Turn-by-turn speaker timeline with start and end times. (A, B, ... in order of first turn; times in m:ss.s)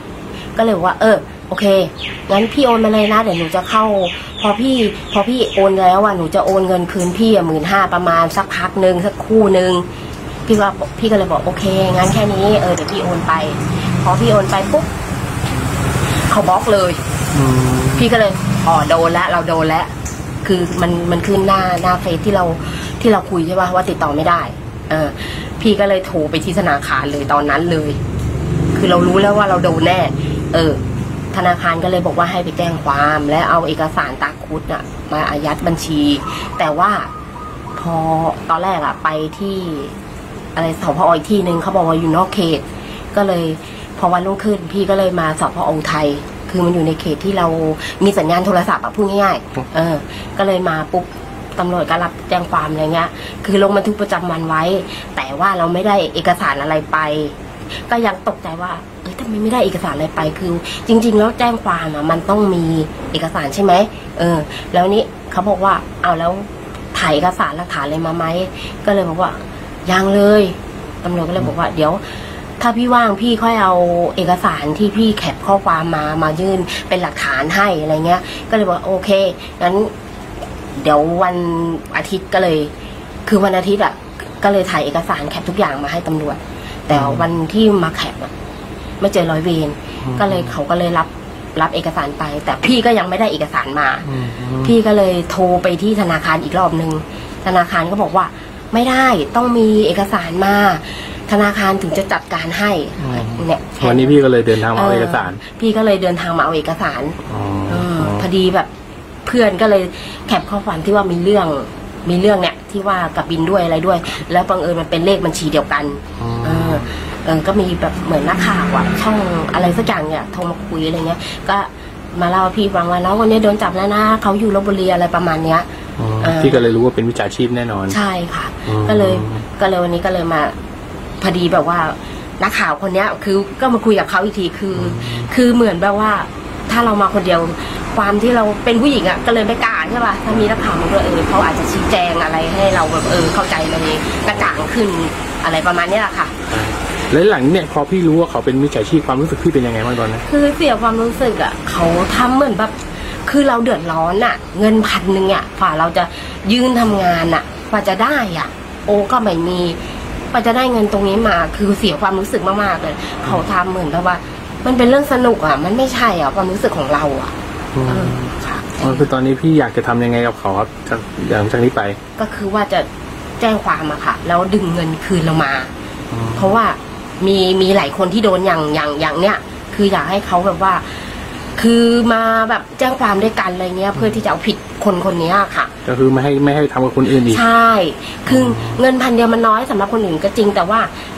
0:00.6-0:09.8 A
0:10.5-0:14.9 A
0:16.3-0:17.0 A
0:17.3-0:18.0 B
0:17.9-0:19.9 A
0:20.4-0:28.0 A
0:28.7-0:30.8 A
0:31.3-0:37.1 A
0:37.7-0:40.0 A
0:40.6-0:57.4 A
0:57.9-1:12.0 A
1:12.6-1:19.9 A
1:20.8-1:22.7 A
1:23.2-1:28.3 A
1:26.9-1:27.3 B
1:29.0-1:34.1 A
1:30.0-1:30.5 B
1:34.0-1:34.7 B
1:34.6-1:44.2 A
1:43.0-1:45.4 B
1:44.7-1:47.2 A
1:47.2-1:48.3 B
1:47.7-1:48.7 A
1:49.2-2:05.7 A
1:56.2-1:56.9 B
2:06.0-2:08.0 B
2:06.2-2:06.6 A
2:07.9-2:10.6 A
2:08.7-2:09.4 B
2:11.2-2:26.3 A
2:14.7-2:15.3 B
2:24.2-2:24.6 B
2:26.5-2:30.2 B
2:30.2-2:39.8 A
2:40.3-2:47.3 A
2:47.7-2:52.0 B
2:47.9-2:49.1 A
2:52.2-2:52.9 A
2:53.4-2:55.7 A
2:56.1-2:56.5 B
2:56.3-3:05.7 A
3:05.8-3:07.4 B
3:07.1-3:10.9 A
3:08.3-3:08.8 B